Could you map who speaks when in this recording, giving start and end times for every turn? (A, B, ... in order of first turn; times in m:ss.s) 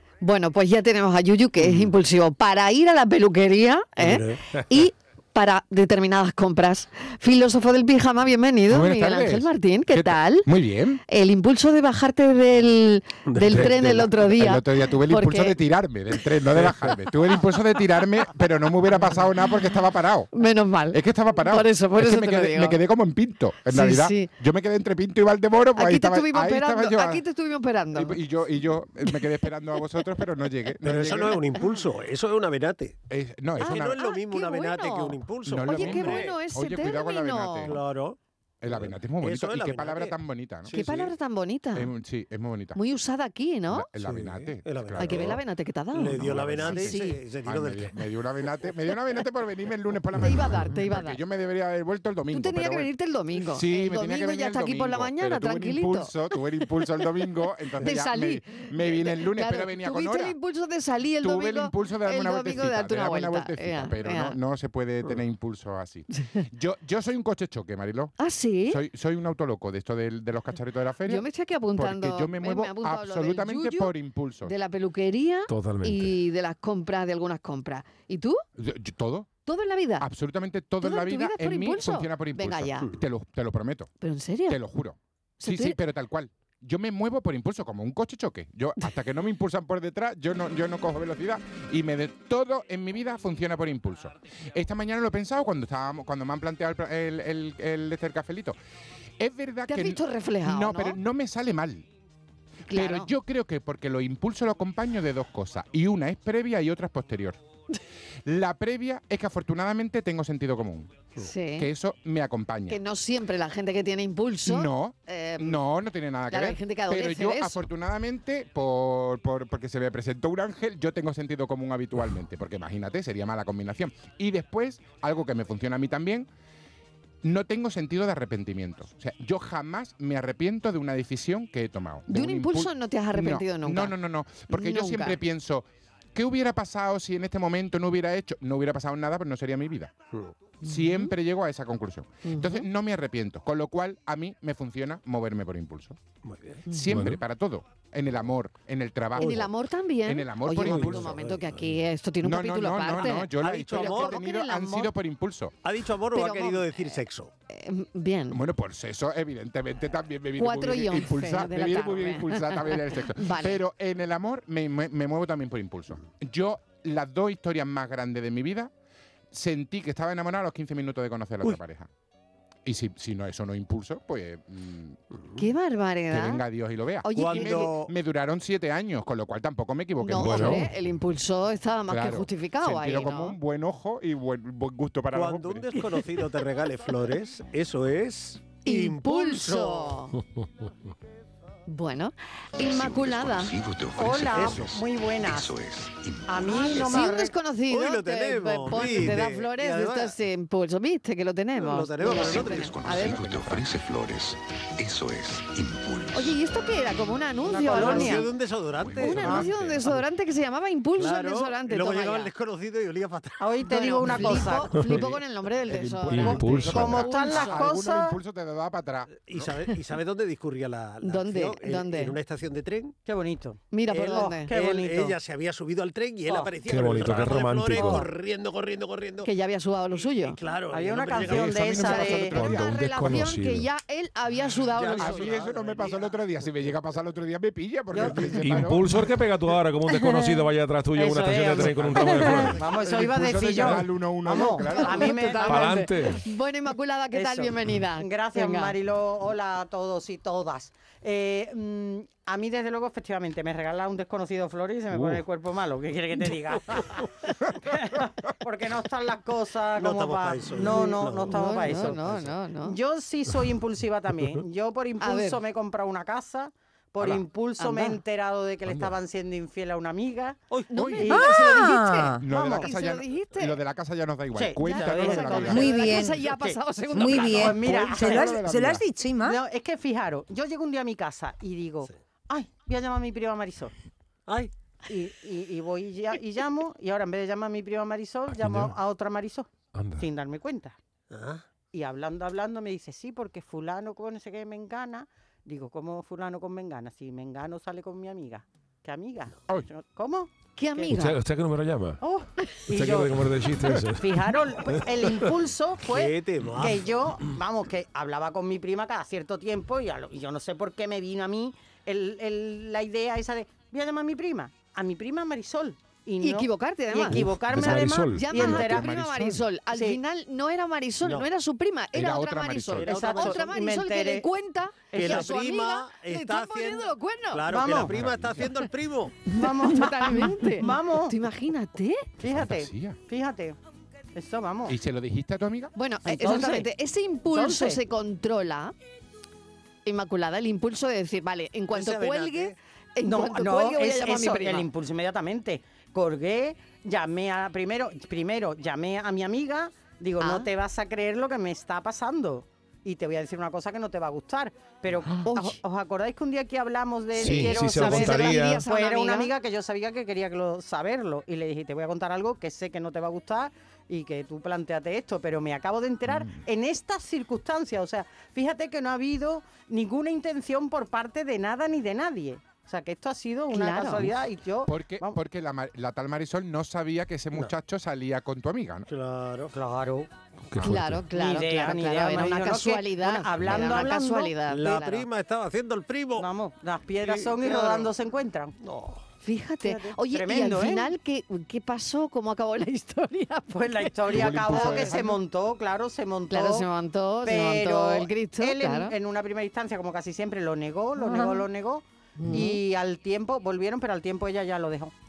0:00.2-0:10.5 A
0:04.0-0:04.4 B
0:08.7-0:11.0 C
0:11.1-0:15.6 A
0:13.3-0:13.9 B
0:13.5-0:20.3 C
0:20.3-0:22.8 A
0:20.9-0:27.2 C
0:23.7-0:24.3 A
0:25.8-0:28.2 A
0:27.9-0:31.4 C
0:30.8-0:33.0 B
0:33.1-0:34.1 C
0:33.6-0:36.4 B
0:33.6-0:37.8 A
0:35.4-0:37.9 C
0:37.6-0:38.2 B
0:38.6-0:40.8 C
0:38.7-0:41.1 B
0:40.7-0:41.9 A
0:41.7-0:42.8 C
0:42.7-0:43.9 A
0:43.7-0:45.4 C
0:44.0-0:45.4 B
0:45.0-0:47.2 A
0:45.9-0:48.1 B
0:46.1-0:52.9 C
0:50.2-0:51.2 A
0:52.3-0:56.1 A
0:53.4-1:00.4 C
0:57.8-1:04.4 A
1:01.2-1:08.1 C
1:08.2-1:08.8 A
1:08.7-1:14.5 C
1:11.0-1:18.4 A
1:15.5-1:16.2 D
1:18.6-1:19.3 C
1:19.4-1:20.1 A
1:20.0-1:23.9 C
1:20.8-1:22.9 A
1:24.0-1:24.6 A
1:24.5-1:38.6 C
1:25.4-1:25.8 A
1:39.2-1:41.9 C
1:39.7-1:41.0 A
1:42.7-1:43.1 A
1:42.7-1:47.4 C
1:48.2-1:52.8 C
1:51.2-1:51.7 A
1:52.7-1:55.6 A
1:54.4-2:06.3 C
1:56.3-1:57.6 A
2:07.2-2:20.0 C
2:12.1-2:14.0 A
2:14.5-2:15.2 A
2:20.6-2:26.0 C
2:22.2-2:22.7 A
2:26.2-2:26.7 B
2:26.7-2:29.5 C
2:26.9-2:27.2 D
2:29.1-2:29.5 B
2:29.2-2:34.9 A
2:30.0-2:31.2 C
2:30.5-2:31.8 B
2:32.2-2:35.6 C
2:33.1-2:34.2 B
2:35.6-2:37.3 B
2:36.1-2:38.4 A
2:38.3-2:48.7 C
2:40.4-2:43.6 A
2:49.3-2:51.9 C
2:52.6-2:55.0 C
2:55.1-2:55.4 B
2:55.4-2:56.4 A
2:56.1-3:00.7 C
2:57.0-2:57.7 A
2:57.1-2:57.9 B
3:00.0-3:03.4 A
3:00.2-3:00.7 D
3:01.9-3:05.8 C
3:05.1-3:10.0 B
3:08.6-3:10.2 A
3:11.7-3:13.5 A
3:12.6-3:17.1 E
3:14.0-3:15.5 F
3:16.3-3:17.3 F
3:16.5-3:23.2 A
3:17.7-3:20.1 B
3:21.5-3:22.8 B
3:22.1-3:26.4 E
3:22.6-3:23.7 C
3:26.1-3:28.3 A
3:27.5-3:28.3 F
3:27.6-3:30.0 B
3:28.8-3:29.9 C
3:29.0-3:32.3 A
3:31.0-3:34.6 B
3:33.4-3:34.8 F
3:33.8-3:37.7 A
3:35.6-3:39.1 C
3:36.1-3:37.0 D
3:36.2-3:38.2 F
3:39.1-3:43.0 B
3:41.0-3:42.1 A
3:43.0-3:45.2 F
3:43.7-3:44.5 A
3:43.9-3:49.3 B
3:46.6-3:48.0 D
3:47.1-3:48.1 F
3:49.2-3:50.4 A
3:49.9-3:51.9 B
3:50.7-3:52.4 F
3:51.2-3:53.2 C
3:51.8-3:55.3 A
3:52.3-3:53.7 D
3:54.4-3:56.8 B
3:55.0-3:58.8 C
3:57.9-3:58.4 F
3:58.0-3:58.4 B
3:58.4-4:02.6 D
3:59.9-4:00.3 F
4:00.9-4:05.9 F
4:01.3-4:02.7 B
4:01.9-4:05.3 C
4:04.5-4:08.7 A
4:05.4-4:06.2 D
4:07.1-4:17.0 F
4:14.9-4:15.2 D
4:17.6-4:22.0 F
4:19.8-4:22.4 B
4:21.3-4:22.8 A
4:22.6-4:30.4 F
4:25.0-4:25.4 A
4:27.6-4:28.0 A
4:28.6-4:29.0 C
4:30.7-4:33.6 A
4:30.8-4:31.1 C
4:31.0-4:31.7 F
4:31.1-4:32.2 G
4:32.2-4:35.8 C
4:32.4-4:32.7 F
4:34.3-4:38.4 F
4:34.6-4:37.6 A
4:35.5-4:36.2 G
4:36.9-4:39.4 G
4:37.5-4:38.8 C
4:39.2-4:43.7 F
4:44.9-4:50.8 F
4:48.3-4:48.8 D
4:49.7-4:50.1 D
4:51.1-4:51.4 B
4:51.7-5:01.1 F
5:00.6-5:01.2 A
5:00.9-5:02.0 D
5:02.0-5:18.9 F
5:02.7-5:05.3 D
5:05.8-5:07.0 B
5:16.2-5:17.2 A
5:17.1-5:18.8 D
5:18.1-5:27.4 A
5:18.7-5:19.4 C
5:19.7-5:20.0 F
5:21.0-5:21.3 B
5:21.9-5:23.0 C
5:22.8-5:23.5 B
5:22.8-5:24.3 F
5:24.9-5:25.3 F
5:24.9-5:29.2 B
5:27.5-5:27.9 F
5:27.9-5:28.5 C
5:29.3-5:32.0 A
5:29.3-5:31.2 F
5:32.2-5:33.6 F
5:32.3-5:33.0 C
5:34.1-5:34.8 F
5:34.7-5:35.7 C
5:35.8-5:38.7 A
5:36.0-5:36.7 F
5:37.3-5:37.8 F
5:39.8-5:44.7 A
5:41.7-5:42.6 B
5:43.0-6:15.2 F
5:50.2-5:50.5 A
5:55.2-5:55.6 A
5:57.1-5:58.6 D
5:57.1-5:59.3 A
6:13.5-6:14.1 A
6:14.6-6:18.9 C
6:18.9-6:19.6 B
6:19.5-6:20.1 F
6:20.5-6:21.0 D
6:20.6-6:25.0 A
6:21.1-6:24.3 F
6:24.4-6:26.3 B
6:26.2-6:28.5 F
6:27.0-6:27.9 B
6:28.6-6:29.0 B
6:29.2-6:35.0 A
6:29.6-6:30.9 F
6:33.5-6:36.7 F
6:36.3-6:38.9 A
6:37.2-6:44.9 F
6:41.0-6:41.4 A
6:42.2-6:42.6 A